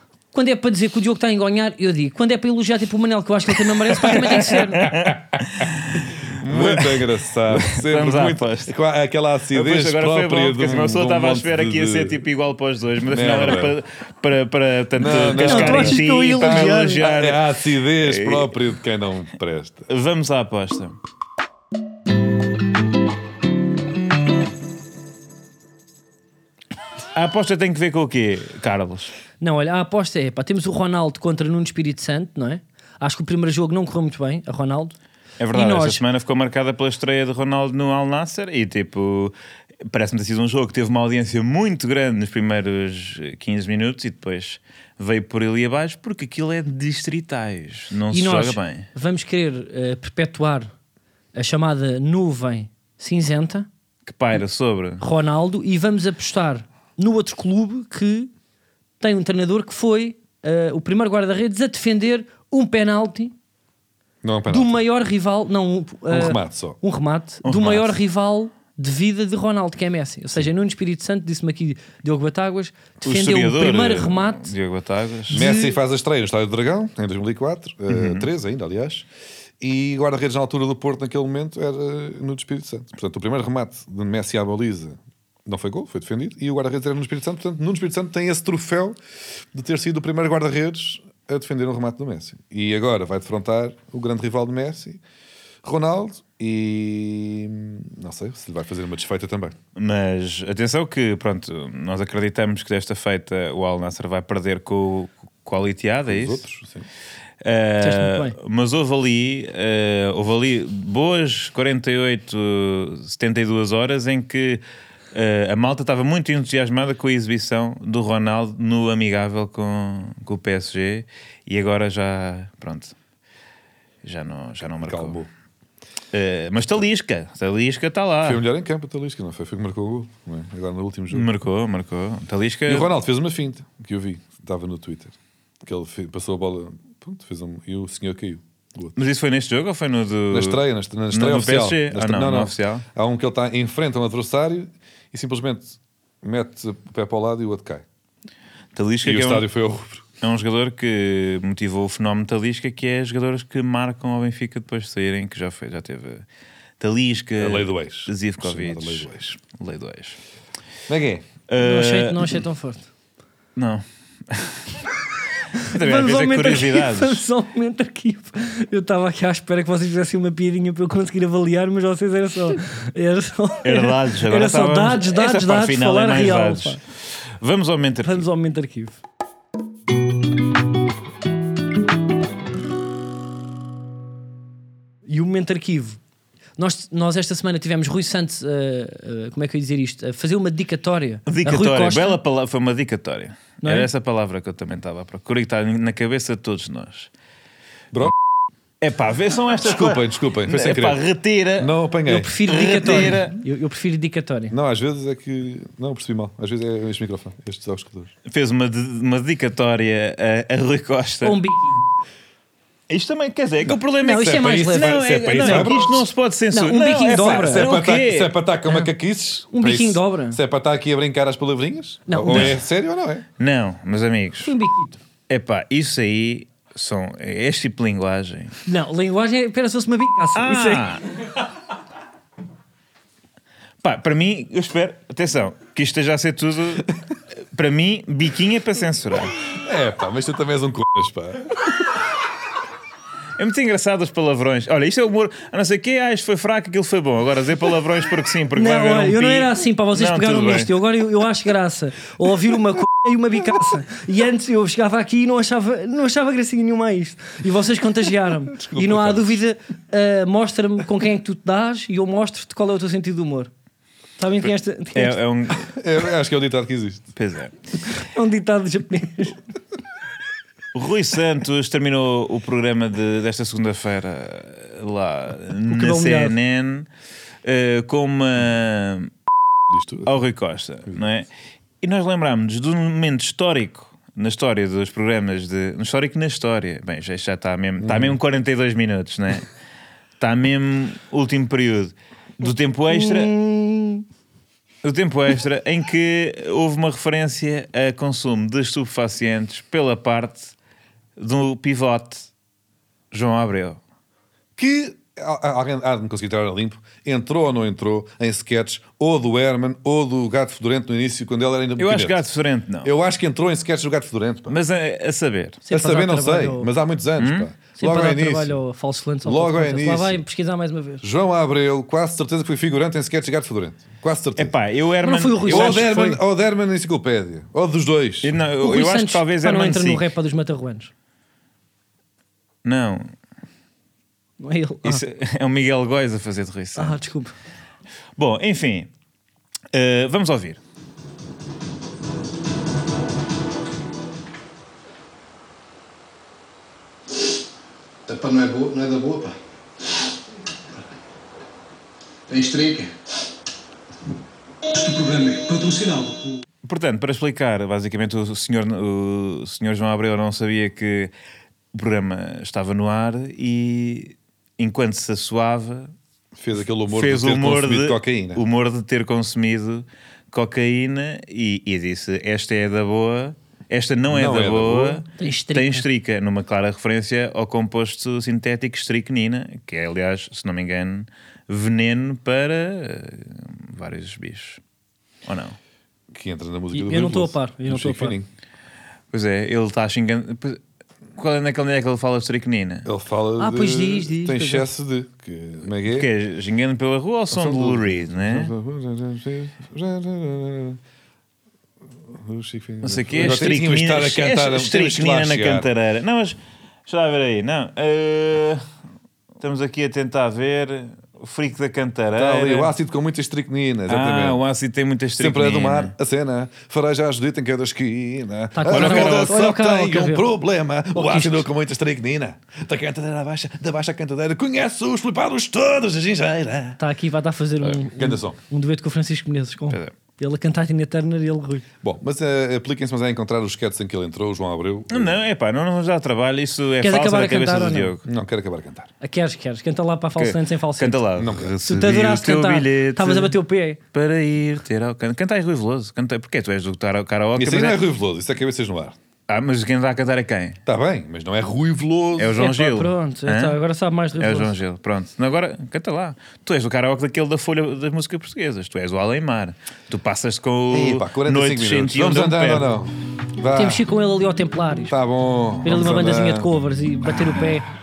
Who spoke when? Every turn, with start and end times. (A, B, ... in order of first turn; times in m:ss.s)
0:00.3-0:04.9 A
0:04.0-0:05.4 B
0:04.1-0:08.7 C
0:06.3-0:12.2 B
0:09.5-0:18.7 C
0:13.1-0:13.8 B
0:15.0-0:19.9 B
0:15.4-0:17.0 A
0:19.9-0:21.0 C
0:27.1-0:29.1 C
0:29.4-0:35.0 A
0:35.4-0:39.3 C
0:35.5-0:36.0 A
0:39.9-0:48.9 C
0:48.1-0:50.7 A
0:51.3-0:53.7 A
0:54.0-0:55.0 C
0:55.0-0:58.3 A
0:59.0-1:03.3 A
1:04.2-1:04.8 B
1:04.5-1:14.5 A
1:06.1-1:06.8 B
1:07.4-1:07.9 C
1:13.0-1:15.4 C
1:15.3-1:19.1 B
1:15.3-1:15.8 A
1:17.9-1:18.3 C
1:19.6-1:29.0 B
1:29.5-1:35.0 B
1:35.6-1:39.6 B
1:39.8-1:46.4 C
1:46.0-1:46.9 B
1:47.4-2:02.9 C
1:47.8-1:48.3 A
2:04.0-2:05.2 C
2:04.8-2:05.3 B
2:06.1-2:08.4 C
2:08.2-2:11.3 B
2:11.1-2:12.9 C
2:12.7-2:19.0 B
2:19.0-2:22.8 C
2:20.3-2:27.8 B
2:28.7-2:29.4 C
2:29.0-2:30.0 B
2:30.2-2:36.2 C
2:36.8-2:40.2 C
2:37.4-2:39.4 B
2:40.9-2:41.2 B
2:41.5-2:42.4 C
2:41.6-2:42.9 A
2:43.6-2:44.8 C
2:45.6-2:47.2 C
2:45.6-2:56.8 A
2:53.6-2:56.8 C
2:57.4-2:58.2 C
2:58.0-2:59.0 A
3:05.1-3:06.0 A
3:06.6-3:12.2 A
3:11.3-3:17.1 C
3:13.6-3:13.9 A
3:18.8-3:21.7 C
3:19.6-3:21.0 B
3:21.6-3:22.4 B
3:22.0-3:24.5 A
3:22.4-3:23.4 C
3:24.5-3:28.1 B
3:28.2-3:31.4 C
3:31.2-3:31.8 A
3:32.9-3:38.3 C
3:33.6-3:36.0 B
3:34.0-3:35.8 A
3:36.5-3:37.7 A
3:37.3-3:43.3 B
3:39.5-3:40.4 A
3:42.1-3:42.5 A
3:42.3-3:42.6 C
3:43.4-3:44.5 C
3:44.4-3:45.0 A
3:45.3-3:48.6 C
3:48.6-3:50.8 A
3:50.3-3:51.0 C
3:53.8-3:57.0 C
3:57.5-3:59.4 C
3:59.6-4:01.7 B
4:03.4-4:10.7 C
4:08.5-4:23.5 A
4:18.5-4:19.4 B
4:24.2-4:25.2 A
4:24.9-4:25.7 C
4:25.6-4:27.1 B
4:27.2-4:27.5 C
4:27.8-4:29.4 A
4:30.7-4:36.9 C
4:35.7-4:36.4 A
4:37.4-4:39.1 C
4:39.7-4:40.1 B
4:40.0-4:41.3 C
4:41.8-4:49.5 C
4:47.8-4:48.2 B
4:50.2-4:53.3 C
4:52.9-4:54.0 A
4:54.8-5:00.5 C
5:01.2-5:02.3 C
5:03.1-5:03.8 C
5:04.6-5:12.2 B
5:11.8-5:12.9 C
5:12.8-5:14.6 B
5:14.5-5:15.6 C
5:15.6-5:16.7 A
5:15.7-5:18.6 B
5:17.2-5:17.5 C
5:17.8-5:21.0 A
5:19.2-5:20.2 B
5:21.0-5:24.5 B
5:24.4-5:25.9 C
5:25.0-5:26.2 A
5:25.4-5:28.4 B
5:28.2-5:30.1 C
5:28.6-5:30.9 A
5:32.6-5:33.1 C
5:34.4-5:35.0 A
5:34.8-5:37.0 C
5:36.8-5:37.3 A
5:38.2-5:38.9 C
5:39.7-5:40.6 C
5:48.1-5:49.3 D
5:48.1-5:49.2 B
5:52.3-5:52.9 D
5:52.4-5:52.8 B
5:54.8-5:55.8 B
5:54.8-5:56.1 D
5:56.6-6:01.1 C
6:01.7-6:05.9 C
6:06.3-6:08.4 B
6:06.9-6:24.6 C
6:14.1-6:15.0 B
6:15.2-6:15.8 A
6:25.2-6:25.6 C
6:26.1-6:28.3 B
6:26.7-6:28.1 A
6:29.1-6:30.6 C
6:31.2-6:32.9 C
6:32.8-6:36.1 B
6:33.4-6:34.7 A
6:35.8-6:38.5 C
6:37.3-6:40.8 B
6:42.1-6:45.7 B
6:42.8-6:48.6 C
6:49.4-6:52.7 C
6:52.2-6:54.4 B
6:53.9-6:55.9 C
6:55.2-7:06.8 B
6:58.5-7:00.3 A
6:58.7-6:59.4 C
7:00.9-7:01.4 A
7:06.8-7:11.6 A
7:08.0-7:08.4 B
7:11.8-7:15.2 B
7:14.9-7:18.0 C
7:16.8-7:17.9 A
7:18.0-7:18.9 B
7:19.0-7:21.0 A
7:20.2-7:23.4 C
7:21.1-7:21.6 B
7:21.6-7:23.8 A
7:23.9-7:27.8 C
7:27.4-7:29.0 B
7:29.3-7:30.6 C
7:30.6-7:32.4 B
7:32.2-7:33.6 C
7:32.4-7:34.5 A
7:34.2-7:42.7 C
7:40.7-7:43.8 B
7:43.5-7:44.9 A
7:44.9-7:46.5 B
7:45.6-7:47.6 A